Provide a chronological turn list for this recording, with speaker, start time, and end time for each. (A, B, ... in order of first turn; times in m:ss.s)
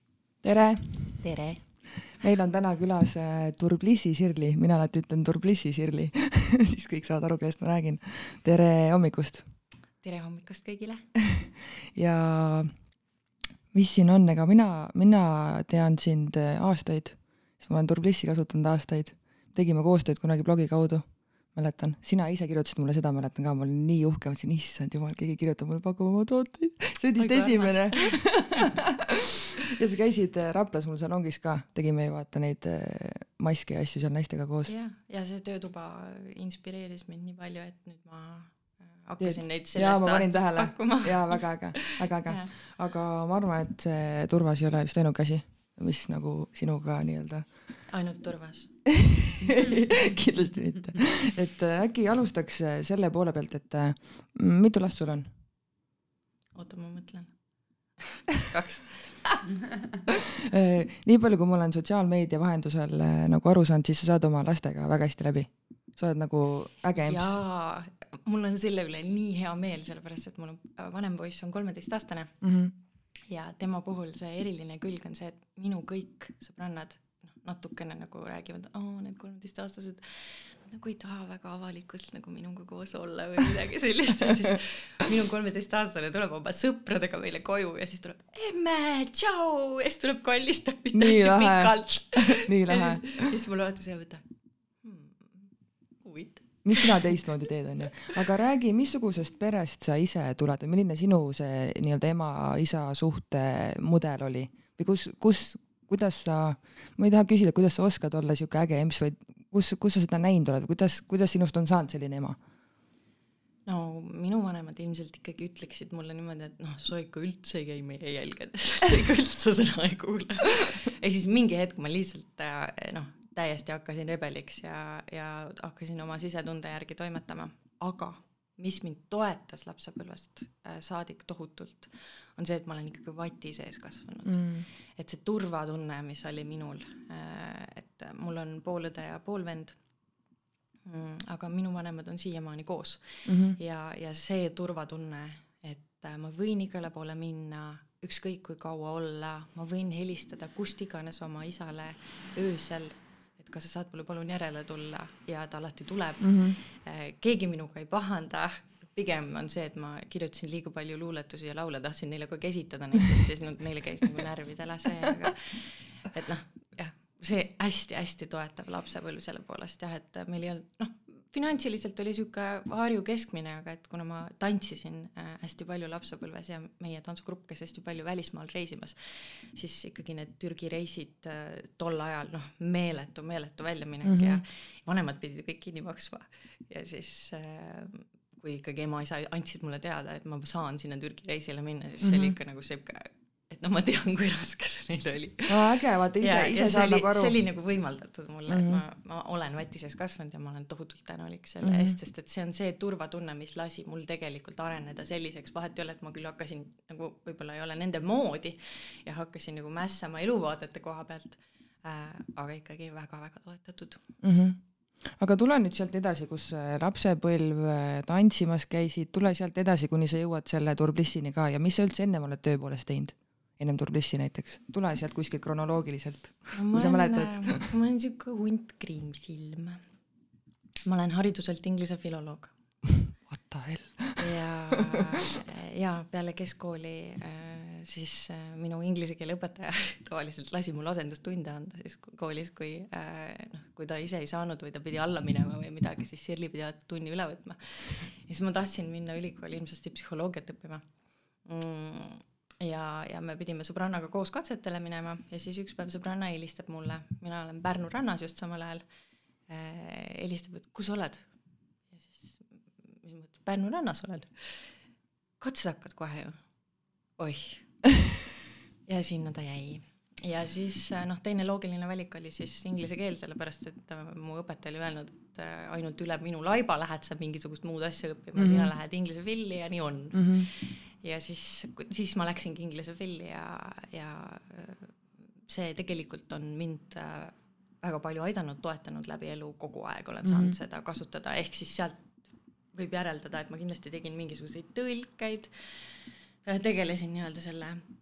0:00.4-0:01.2 A
0:01.2-0:01.6 B
0:02.2-0:09.4 A
0:10.0-0:11.0 B
0:11.9-0:12.7 A
0:13.7-0:34.7 A
0:27.2-0:28.3 B
0:34.7-0:42.5 B
0:39.2-0:47.4 A
0:47.9-0:48.7 B
0:48.9-0:55.3 A
0:56.5-0:57.3 B
0:58.0-0:59.2 B
1:00.1-1:07.4 A
1:06.9-1:12.4 B
1:12.4-1:12.7 A
1:13.3-1:34.2 B
1:30.9-1:33.3 A
1:34.8-1:35.5 B
1:36.0-1:37.2 B
1:36.6-1:52.4 A
1:53.6-2:19.8 B
2:14.3-2:14.6 A
2:20.8-3:34.0 B
2:23.2-2:23.6 A
2:36.2-2:36.6 A
3:04.0-3:04.4 A
3:12.0-3:12.3 A
3:15.5-3:17.3 A
3:18.5-3:18.8 A
3:21.6-3:21.9 A
3:34.2-3:34.6 A
3:35.2-3:47.7 A
3:46.5-3:49.8 B
3:50.8-3:52.5 B
3:53.3-3:54.8 A
3:54.2-4:10.8 B
4:11.4-4:18.8 B
4:19.5-4:21.2 B
4:21.9-4:22.4 B
4:23.0-4:24.7 B
4:25.4-4:26.4 B
4:27.2-4:27.8 B
4:28.8-4:44.9 B
4:38.4-4:38.7 A
4:40.1-4:40.5 A
4:45.5-4:52.0 B
4:50.2-4:50.6 A
4:52.7-4:57.8 B